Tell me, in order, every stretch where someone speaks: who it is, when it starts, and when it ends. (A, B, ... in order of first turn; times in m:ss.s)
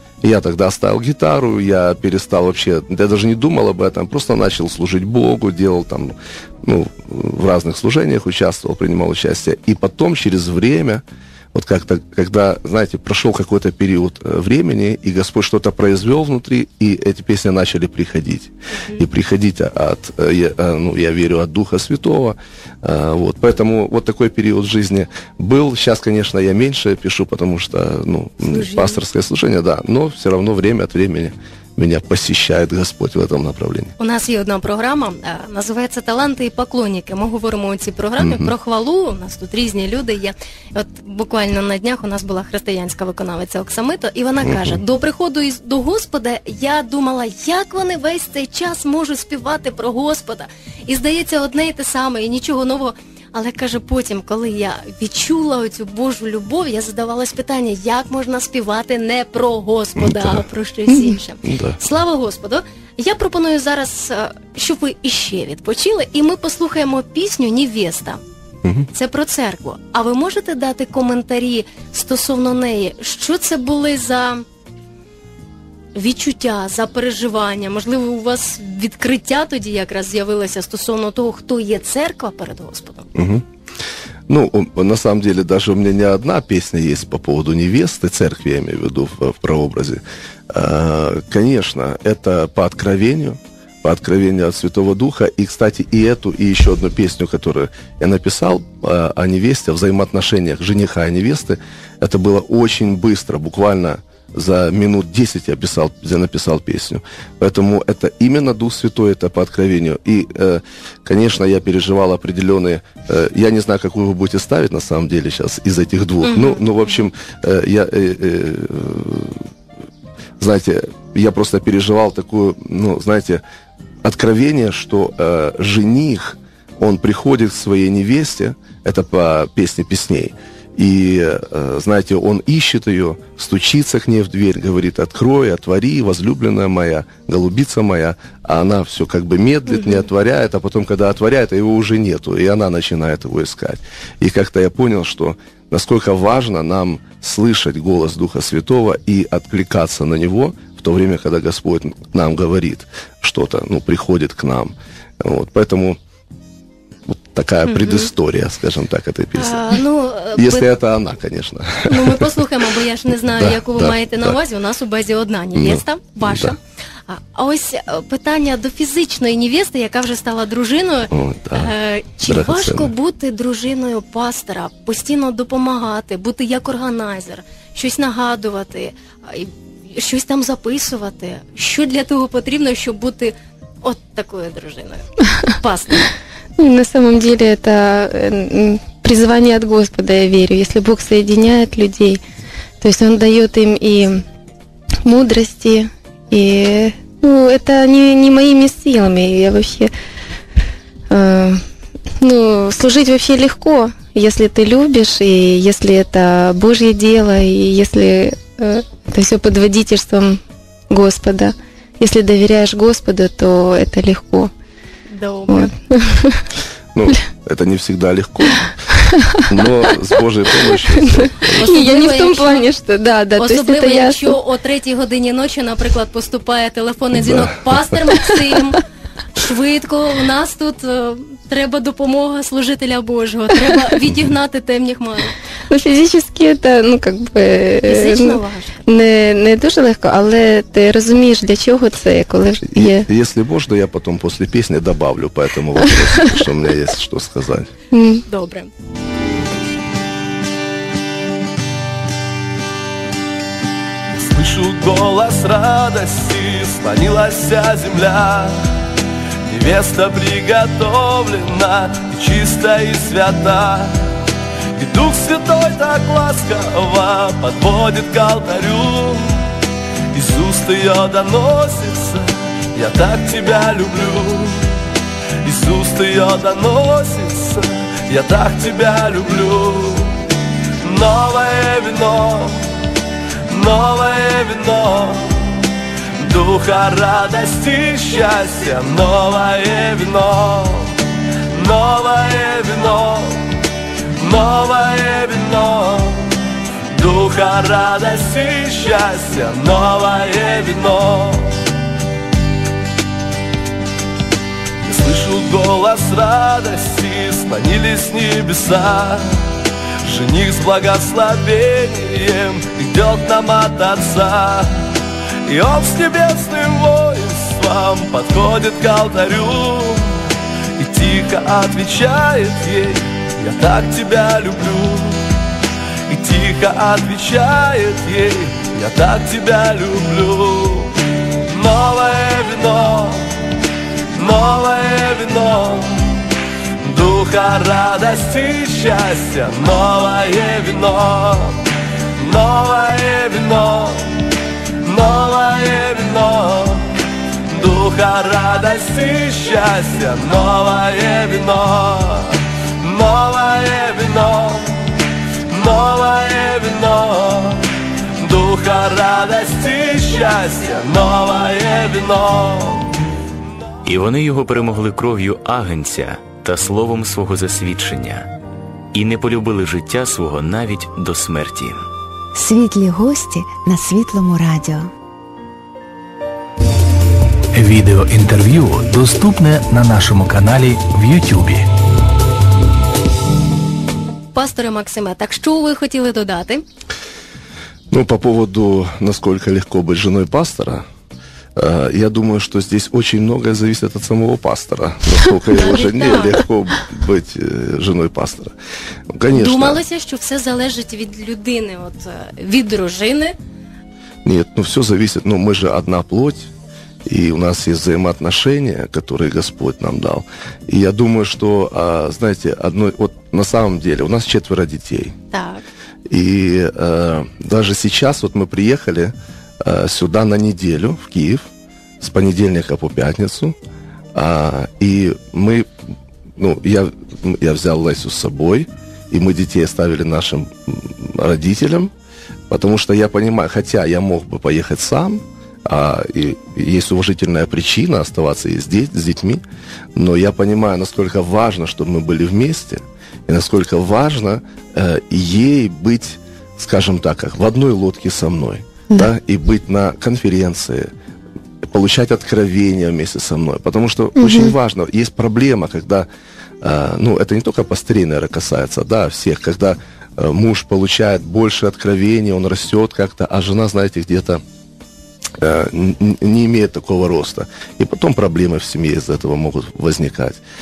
0:00.2-0:33.9 A
0:18.7-0:19.1 B
0:28.4-0:29.0 B
0:34.0-1:08.2 B
0:38.2-0:38.5 A
0:44.4-0:44.8 A
1:00.0-1:00.4 A
1:01.4-1:01.8 A
1:08.6-1:08.9 A
1:08.9-1:14.4 B
1:15.9-1:23.1 B
1:23.2-1:23.4 A
1:24.3-1:59.5 A
1:56.2-1:57.0 B
2:00.4-2:03.4 A
2:04.0-2:36.0 A
2:19.7-2:20.1 B
2:37.1-2:39.8 A
2:37.7-2:38.1 B
2:39.4-2:40.7 B
2:40.3-2:42.3 A
2:41.9-3:06.1 B
2:43.3-2:44.4 A
2:45.6-2:46.6 A
2:51.1-2:51.7 A
2:52.2-2:52.9 A
3:06.6-3:12.2 C
3:12.8-3:14.2 C
3:15.0-3:19.9 C
3:21.1-3:21.6 C
3:22.2-3:34.5 C
3:35.1-3:35.7 B
3:35.5-3:36.4 C
3:36.9-3:38.8 A
3:39.1-3:39.7 C
3:39.5-3:41.7 A
3:40.7-3:44.4 C
3:41.5-3:42.7 B
3:43.4-3:48.8 B
3:47.2-3:47.7 A
3:49.4-3:55.4 B
3:55.7-4:03.1 C
3:57.9-3:58.8 B
4:02.6-4:07.7 A
4:06.0-4:06.4 C
4:07.9-4:08.2 C
4:08.3-4:08.7 B
4:14.1-4:18.6 D
4:19.5-4:24.0 D
4:24.8-4:29.3 D
4:30.1-4:34.7 D
4:35.4-4:40.2 D
4:40.8-4:42.6 D
4:43.5-4:45.3 D
4:46.2-4:51.0 D
4:51.5-4:53.6 D
4:54.2-4:56.3 D
4:56.9-5:01.6 D
5:04.9-5:09.5 D
5:10.0-5:14.8 D
5:15.5-5:25.3 D
5:26.1-5:31.0 D
5:31.5-5:33.3 D
5:34.1-5:36.2 D
5:36.8-5:41.6 D
5:42.2-5:44.2 D
5:44.8-5:54.7 D
5:55.5-5:57.6 D
5:58.2-6:03.0 D
6:03.8-6:08.3 E
6:08.9-6:11.8 E
6:12.3-6:14.9 F
6:17.5-6:21.7 G
6:24.3-6:26.6 B
6:27.9-6:30.8 A
6:31.6-6:38.6 A
6:35.5-6:36.4 B
6:39.1-6:39.8 A
6:39.3-6:43.4 B
6:44.2-6:46.5 A
6:47.1-6:55.2 A
6:55.3-6:55.6 B
6:56.1-7:01.5 A
7:02.0-7:03.6 A
7:04.1-7:05.7 A
7:06.4-7:11.9 A
7:12.5-7:19.4 A
7:20.0-7:30.9 A
7:31.6-7:36.1 A
7:34.2-7:34.5 C
7:36.6-7:44.4 A
7:45.4-7:50.4 A